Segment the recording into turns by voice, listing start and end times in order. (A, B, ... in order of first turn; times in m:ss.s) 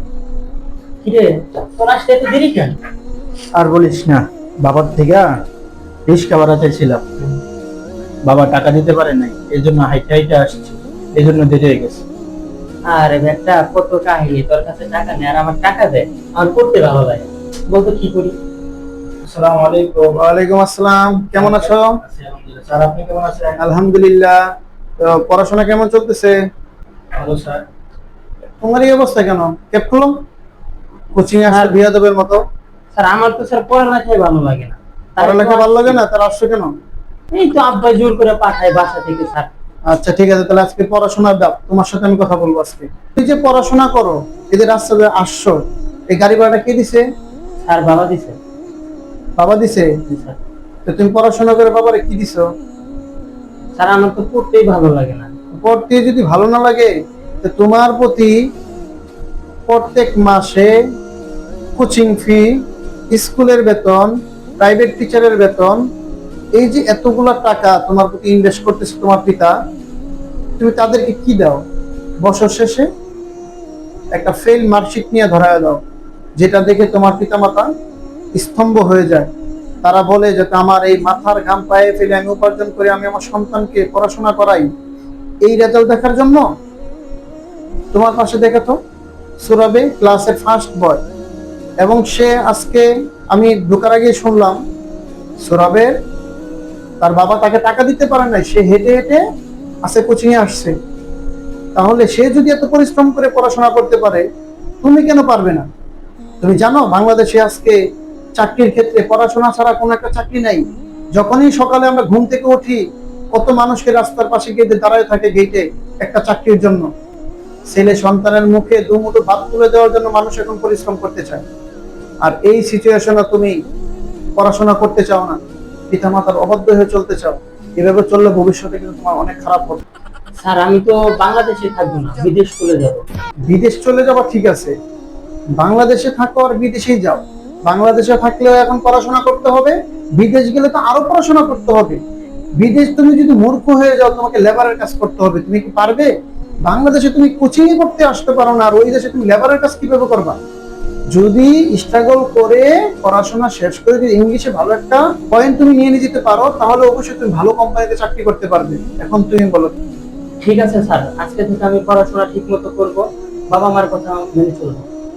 0:01.0-0:02.8 A
0:03.5-0:05.3 B
0:06.1-0:07.0 B
0:08.2-0:12.0 B
0:12.8-0:18.4 A
0:19.2-0:20.1 B
0:20.1-0:21.9 C
0:21.4-0:23.6 B
0:23.6-0:24.4 C
0:25.0-0:26.3 C
0:27.1-0:27.6 B
0:28.6-0:30.2 C
0:31.1-0:32.4 C
0:31.5-0:31.7 A
0:32.9-0:36.0 A
0:35.2-0:36.7 C
0:37.3-0:39.5 A
0:39.9-0:45.6 C
0:46.1-0:47.0 C
0:47.6-0:48.4 A
0:49.4-0:49.9 C
0:50.1-0:50.4 A
0:50.8-0:52.4 C
0:53.8-0:55.3 A
0:55.5-0:56.9 C
0:57.4-0:58.3 C
0:59.7-1:00.7 C
1:01.8-1:02.6 C
1:03.1-1:05.8 C
1:06.6-1:09.5 C
1:10.6-1:11.6 C
1:12.2-1:12.9 C
1:14.1-1:15.8 C
1:16.4-1:17.7 C
1:18.3-1:19.3 C
1:19.8-1:24.7 C
1:25.4-1:26.4 C
1:27.9-1:28.8 C
1:29.4-1:31.0 C
1:31.8-1:34.6 C
1:35.4-1:35.9 C
1:37.0-1:39.2 C
1:39.8-1:40.7 C
1:41.8-1:44.2 C
1:44.8-1:45.6 C
1:46.4-1:47.8 C
1:48.4-1:50.6 C
1:51.2-1:52.8 C
1:53.3-1:56.9 C
1:57.7-2:01.4 C
2:02.2-2:03.5 C
2:04.4-2:05.4 C
2:05.9-2:09.8 C
2:10.4-2:13.0 A
2:13.5-2:14.7 C
2:15.6-2:22.0 C
2:22.6-2:26.1 C
2:26.6-2:30.4 C
2:31.1-2:39.7 C
2:40.4-2:44.9 A